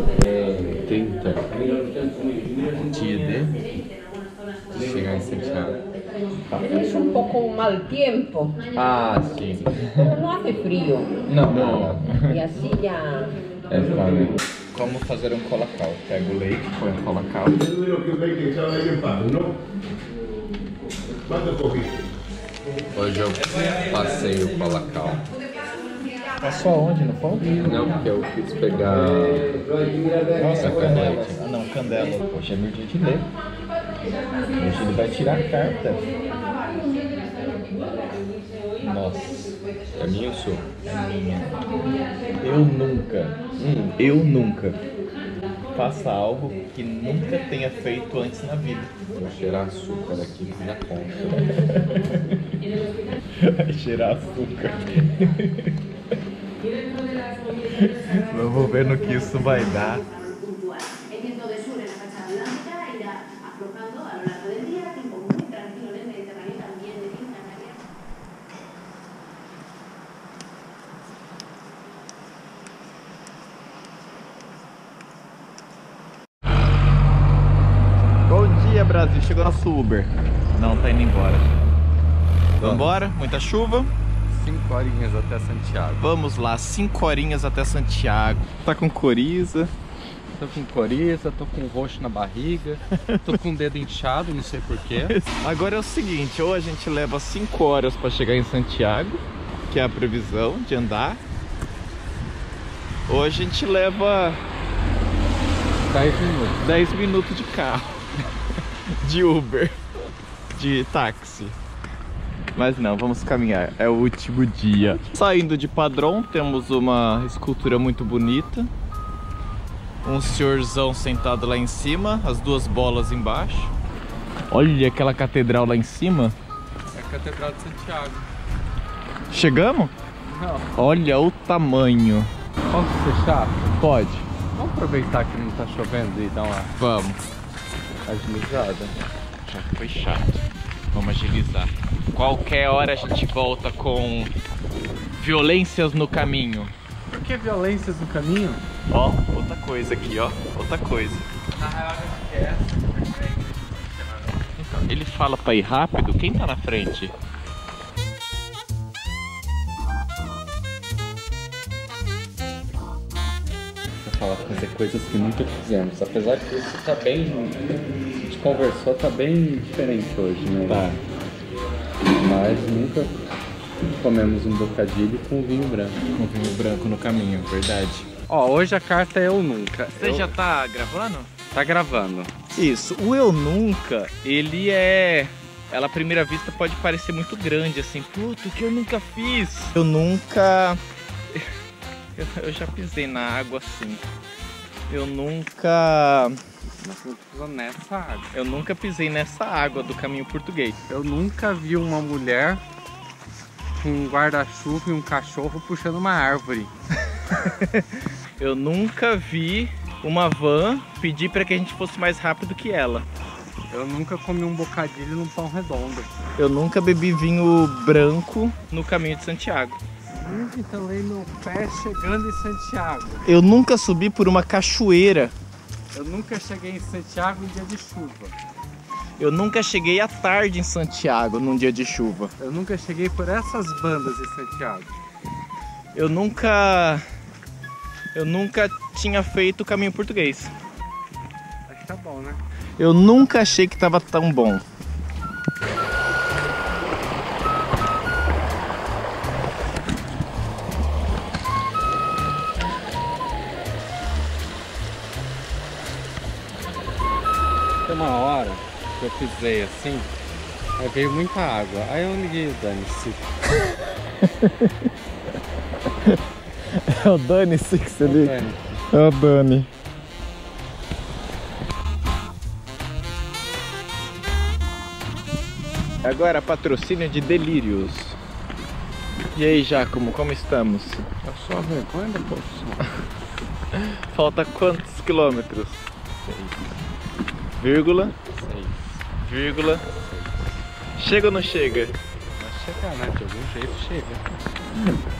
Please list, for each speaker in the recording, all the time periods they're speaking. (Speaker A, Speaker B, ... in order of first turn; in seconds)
Speaker A: 0.4-1.6, 4.7-5.8, 22.9-25.2, 27.6-29.6, 30.6-31.4, 39.9-40.6, 43.6-43.9, 49.1-51.4, 82.6-82.9, 84.3-86.0, 90.3-95.2, 105.9-106.7, 126.9-128.2, 130.3-130.7, 132.7-133.7, 134.5-136.7, 138.1-138.9, 147.1-148.6, 151.6-154.3, 164.0-167.7, 168.2-170.9, 172.2-173.1, 174.0-176.0, 178.3-180.3, 181.5-182.3, 196.8-198.3, 200.9-202.6, 203.8-206.7, 213.7-216.1, 220.2-223.2, 225.9-228.3, 232.4-234.9, 241.7-242.4, 257.8-260.1, 260.8-263.4, 268.0-268.8, 281.2-282.9, 288.3-289.0, 289.8-290.6, 292.4-294.2
Speaker B: 2.9-3.5, 8.7-10.2, 11.3-12.4, 13.7-19.2, 26.4-27.7, 30.3-33.3, 34.5-36.0, 38.8-39.5, 40.8-41.5, 42.4-43.4, 44.0-44.8, 45.7-48.9, 51.4-52.2, 53.4-55.8, 57.8-60.0, 78.3-81.5, 82.6-83.9, 86.0-89.7, 95.0-101.2, 103.1-104.4, 106.6-108.0, 109.0-109.7, 110.5-111.5, 112.5-118.7, 120.0-123.7, 124.5-126.3, 129.3-129.9, 130.7-132.3, 133.8-134.3, 136.8-137.2, 139.4-144.3, 145.2-146.7, 148.9-151.3, 154.6-157.1, 170.7-171.0, 176.1-178.1, 179.9-181.3, 182.5-190.8, 192.2-194.1, 194.9-196.4, 198.3-200.7, 207.3-213.1, 216.4-219.8, 223.2-225.3, 229.2-232.3, 235.9-237.0, 238.1-240.5, 242.8-244.6, 264.2-264.7, 266.7-268.4, 268.9-269.7, 276.0-278.2, 279.3-281.1, 283.9-285.9, 287.6-288.1, 289.2-289.8, 291.0-291.9
Speaker C: 6.5-8.6, 10.0-11.2, 11.8-13.3